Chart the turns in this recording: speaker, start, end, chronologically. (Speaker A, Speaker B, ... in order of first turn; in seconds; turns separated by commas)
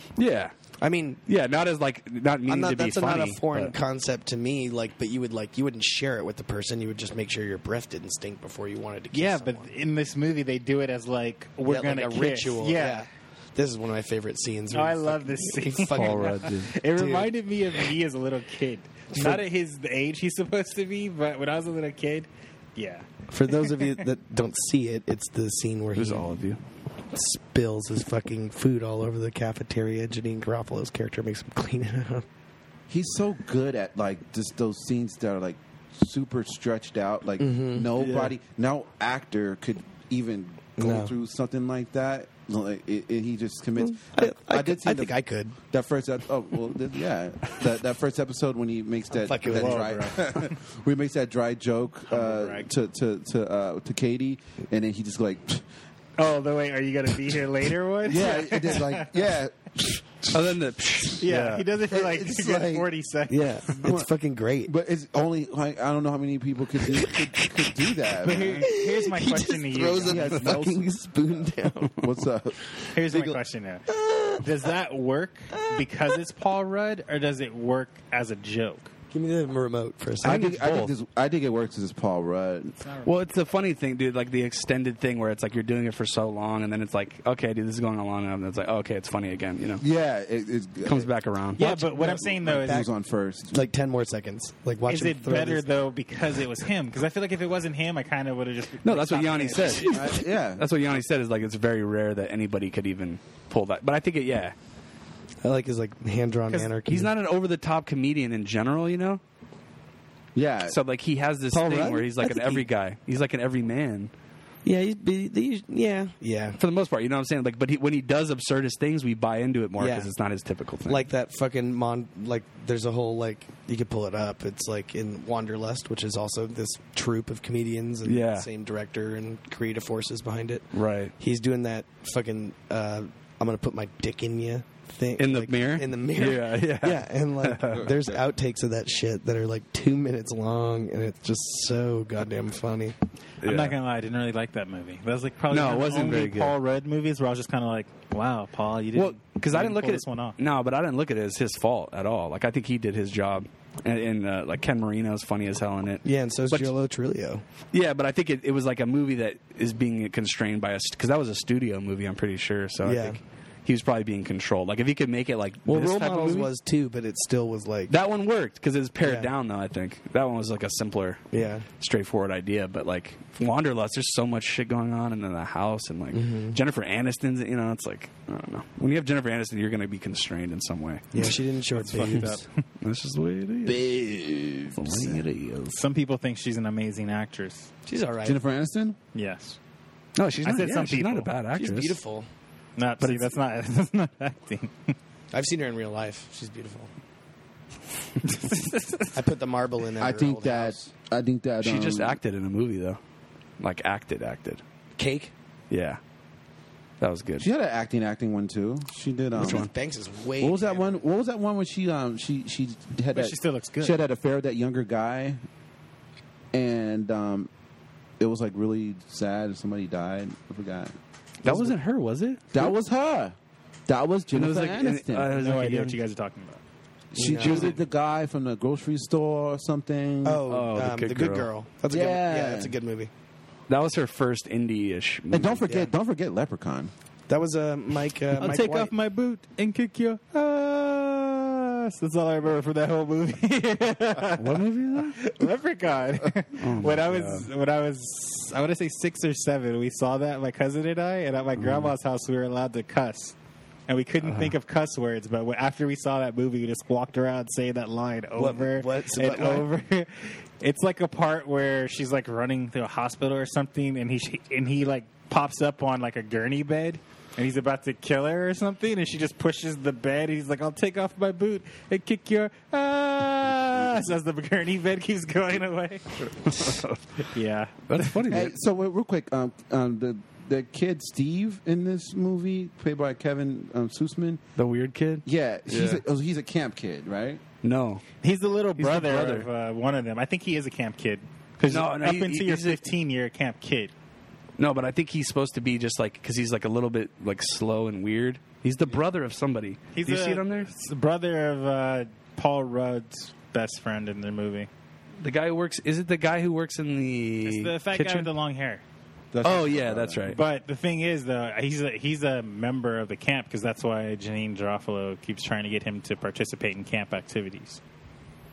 Speaker A: 0.2-0.5, Speaker B: 0.8-1.2, Speaker A: 1.3-3.7, Speaker B: 2.5-9.7, Speaker C: 9.1-13.1, Speaker B: 11.7-17.3, Speaker C: 14.7-24.0, Speaker A: 15.9-16.7, Speaker B: 19.1-19.4, Speaker B: 23.3-26.4, Speaker A: 25.9-26.6, Speaker B: 27.1-32.2, Speaker D: 32.9-45.1, Speaker B: 37.4-37.9, Speaker A: 38.0-38.4, Speaker B: 40.8-41.1, Speaker B: 43.8-45.5, Speaker D: 45.7-55.6, Speaker B: 49.1-50.1, Speaker C: 49.5-50.6, Speaker C: 52.1-52.7, Speaker C: 56.2-59.1, Speaker D: 58.0-60.5, Speaker A: 60.3-61.6, Speaker C: 61.2-63.8, Speaker D: 61.9-62.9, Speaker B: 63.3-64.7, Speaker D: 63.8-64.1, Speaker D: 64.6-68.7, Speaker B: 66.8-72.1, Speaker C: 68.2-70.5, Speaker D: 69.7-70.9, Speaker D: 72.0-73.4, Speaker C: 72.9-78.9, Speaker B: 73.9-74.5, Speaker B: 79.1-80.4, Speaker A: 80.2-80.9, Speaker D: 80.2-82.7, Speaker C: 82.8-83.2, Speaker A: 83.0-89.8, Speaker D: 89.8-93.7, Speaker A: 90.8-91.6, Speaker C: 91.6-92.9, Speaker B: 91.6-92.9, Speaker B: 93.5-95.6, Speaker C: 94.9-100.1, Speaker A: 98.8-104.5, Speaker D: 99.8-100.7, Speaker B: 105.4-107.1, Speaker A: 106.8-109.2, Speaker D: 110.3-110.8, Speaker A: 110.7-114.1, Speaker B: 111.5-112.6, Speaker B: 114.6-116.6, Speaker A: 116.6-121.0, Speaker B: 119.8-120.1, Speaker B: 120.8-130.6, Speaker A: 128.0-128.5, Speaker A: 130.7-131.1, Speaker B: 131.2-142.9, Speaker A: 135.2-137.9, Speaker D: 137.7-138.2, Speaker A: 143.4-143.8, Speaker C: 143.4-150.4, Speaker A: 145.5-146.5, Speaker A: 148.9-156.7, Speaker B: 156.0-157.4, Speaker A: 157.7-166.5, Speaker B: 162.8-163.2, Speaker B: 165.7-167.9, Speaker A: 167.9-171.2, Speaker B: 169.0-169.3, Speaker B: 171.3-171.7, Speaker A: 171.8-181.2, Speaker B: 176.1-176.6, Speaker B: 181.1-182.4, Speaker C: 181.7-182.5, Speaker A: 182.8-183.9, Speaker D: 183.6-185.2, Speaker A: 184.7-185.8, Speaker C: 185.7-187.7, Speaker B: 187.8-188.4, Speaker D: 188.2-189.0, Speaker C: 189.1-189.6, Speaker A: 190.2-192.0, Speaker C: 190.4-191.3, Speaker B: 191.5-192.3, Speaker C: 192.8-194.9, Speaker A: 193.0-193.3, Speaker B: 195.3-196.9, Speaker C: 198.2-199.2, Speaker B: 199.1-200.8, Speaker D: 200.0-202.2, Speaker A: 201.6-203.0, Speaker A: 203.6-204.6, Speaker B: 204.9-205.3, Speaker A: 205.7-206.0, Speaker A: 207.0-207.5, Speaker D: 207.4-209.7, Speaker B: 209.3-211.0, Speaker A: 209.4-209.7, Speaker D: 210.4-215.4, Speaker C: 213.1-214.0, Speaker D: 216.5-217.5, Speaker D: 218.2-220.9, Speaker B: 221.4-221.7, Speaker A: 221.4-222.7, Speaker D: 222.5-223.3, Speaker D: 223.9-225.3, Speaker A: 224.3-226.0, Speaker C: 225.3-226.6, Speaker D: 227.1-230.4, Speaker B: 227.1-227.8, Speaker C: 227.4-227.8, Speaker B: 230.2-233.1, Speaker A: 230.5-231.5, Speaker D: 231.9-232.7, Speaker A: 233.7-235.6, Speaker D: 235.3-236.9, Speaker B: 237.3-238.9, Speaker C: 238.4-253.3, Speaker A: 244.3-245.2, Speaker A: 246.6-247.5, Speaker A: 251.6-251.9, Speaker C: 253.9-276.5, Speaker A: 254.2-254.5, Speaker B: 258.4-259.7, Speaker A: 276.3-277.0, Speaker C: 277.3-278.2, Speaker A: 277.9-278.5, Speaker D: 278.3-284.4, Speaker A: 284.6-286.0, Speaker D: 285.2-287.4, Speaker A: 287.6-288.0, Speaker C: 288.2-293.9, Speaker A: 288.8-289.5, Speaker A: 291.6-292.8, Speaker A: 294.6-300.7, Speaker C: 299.9-304.7, Speaker A: 305.2-308.3, Speaker C: 307.4-308.8, Speaker D: 309.3-310.3, Speaker A: 309.4-310.4, Speaker C: 310.3-317.8